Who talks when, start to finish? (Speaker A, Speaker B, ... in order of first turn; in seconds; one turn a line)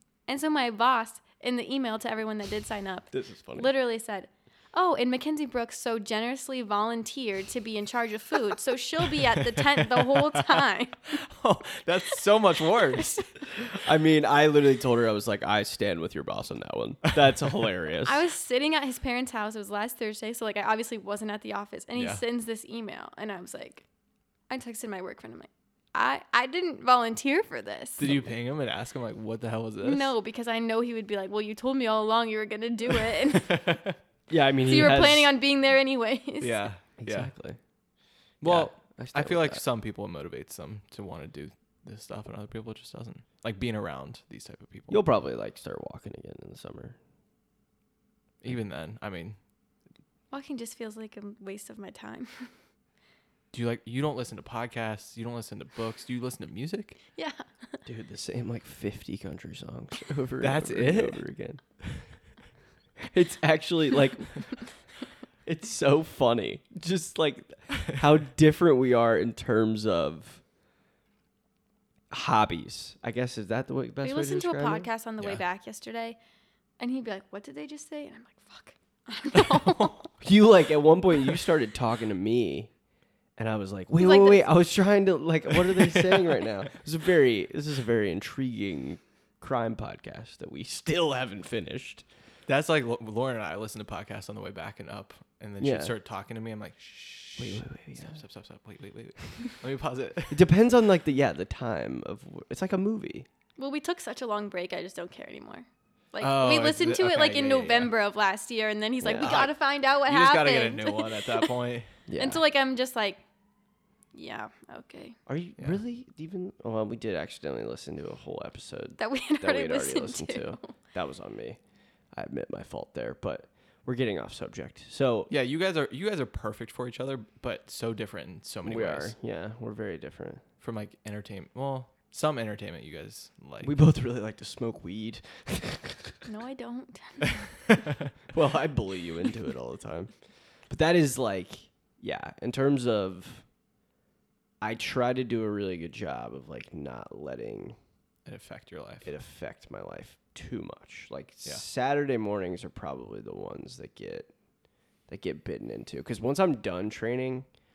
Speaker A: 0.3-11.1
Speaker B: 3.1-3.7
Speaker C: 9.4-10.7
Speaker C: 11.2-13.4
Speaker B: 13.7-18.2
Speaker A: 18.0-23.9
Speaker C: 22.0-22.2
Speaker A: 24.5-28.1
Speaker C: 28.0-30.1
Speaker A: 29.8-33.5
Speaker C: 33.4-33.9
Speaker B: 34.3-35.3
Speaker A: 34.7-36.6
Speaker C: 36.4-37.3
Speaker B: 37.0-37.6
Speaker B: 38.4-39.6
Speaker C: 38.4-45.0
Speaker B: 44.9-47.0
Speaker C: 48.4-49.4
Speaker A: 50.3-52.5
Speaker C: 53.5-57.0
Speaker A: 57.2-57.8
Speaker B: 57.9-61.6
Speaker C: 60.4-61.2
Speaker B: 63.0-64.8
Speaker B: 65.5-70.4
Speaker B: 72.1-74.9
Speaker A: 74.0-76.2
Speaker A: 76.8-80.1
Speaker B: 80.2-82.7
Speaker B: 83.4-92.1
Speaker A: 84.0-84.5
Speaker C: 92.5-100.5
Speaker B: 95.6-95.9
Speaker B: 97.4-98.2
Speaker B: 100.3-103.3
Speaker A: 103.6-111.5
Speaker C: 106.2-107.9
Speaker B: 109.0-109.5
Speaker C: 109.2-111.9
Speaker B: 112.1-112.4
Speaker A: 112.2-113.2
Speaker A: 114.1-115.2
Speaker B: 115.3-121.6
Speaker A: 119.0-120.7
Speaker B: 122.1-125.3
Speaker C: 125.3-129.1
Speaker B: 128.6-130.4
Speaker C: 130.6-133.7
Speaker B: 133.6-136.2
Speaker A: 136.3-137.4
Speaker B: 138.3-140.1
Speaker B: 140.7-143.4
Speaker B: 144.6-147.8
Speaker C: 148.3-149.1
Speaker B: 149.0-154.3
Speaker B: 155.1-157.5